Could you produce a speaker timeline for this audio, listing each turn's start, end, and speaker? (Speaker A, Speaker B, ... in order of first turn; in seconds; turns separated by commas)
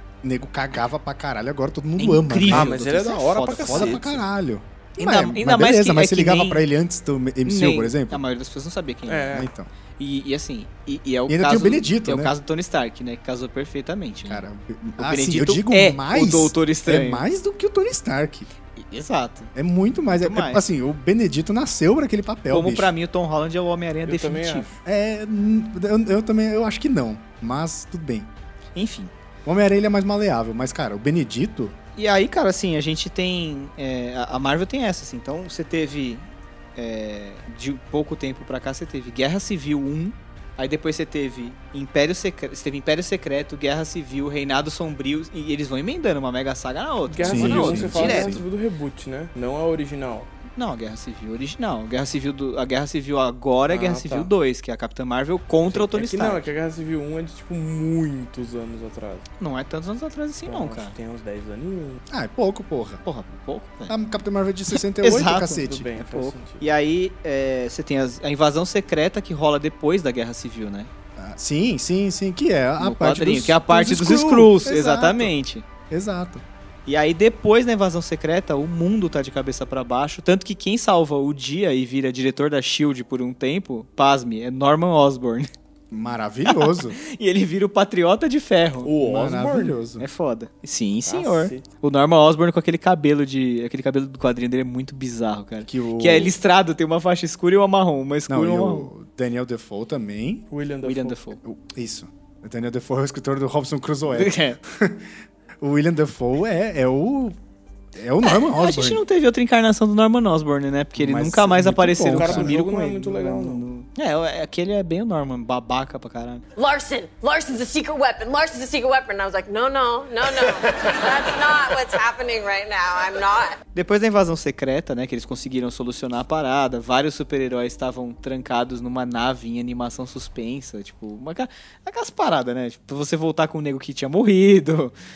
Speaker A: 0.2-2.7, Speaker B: 2.0-4.2, Speaker C: 2.5-4.2, Speaker A: 3.6-8.2, Speaker B: 5.0-6.6, Speaker B: 7.4-9.4, Speaker C: 9.1-9.5, Speaker A: 9.3-9.7, Speaker B: 10.0-14.4, Speaker A: 11.3-12.3, Speaker A: 14.3-18.5, Speaker B: 15.0-17.2, Speaker B: 18.8-19.5, Speaker A: 19.5-22.9, Speaker B: 20.1-20.6, Speaker B: 22.5-24.7, Speaker C: 24.0-24.8, Speaker A: 24.8-28.3, Speaker B: 28.7-29.1, Speaker A: 29.4-31.7, Speaker B: 32.0-48.4, Speaker C: 47.1-50.3, Speaker A: 47.2-48.4, Speaker B: 50.5-56.4, Speaker C: 53.7-54.3, Speaker C: 55.7-59.2, Speaker B: 59.4-60.9, Speaker C: 60.5-62.0, Speaker A: 62.1-63.0, Speaker B: 63.0-63.9, Speaker A: 63.9-65.9, Speaker B: 64.7-70.9, Speaker C: 65.0-66.7, Speaker A: 71.2-75.3, Speaker B: 72.8-75.6, Speaker A: 75.9-76.4, Speaker B: 76.9-85.5, Speaker A: 85.9-87.0, Speaker B: 86.5-89.0, Speaker C: 88.8-89.8, Speaker A: 89.0-90.0, Speaker B: 90.0-98.9, Speaker C: 91.0-91.7, Speaker A: 95.7-96.3, Speaker A: 98.3-100.5, Speaker C: 100.5-101.2, Speaker B: 100.8-101.4, Speaker A: 101.4-107.3, Speaker B: 104.1-104.6, Speaker A: 107.9-109.0, Speaker B: 108.2-116.4, Speaker A: 111.0-112.5, Speaker C: 112.1-113.7, Speaker D: 116.6-123.6, Speaker B: 123.7-134.9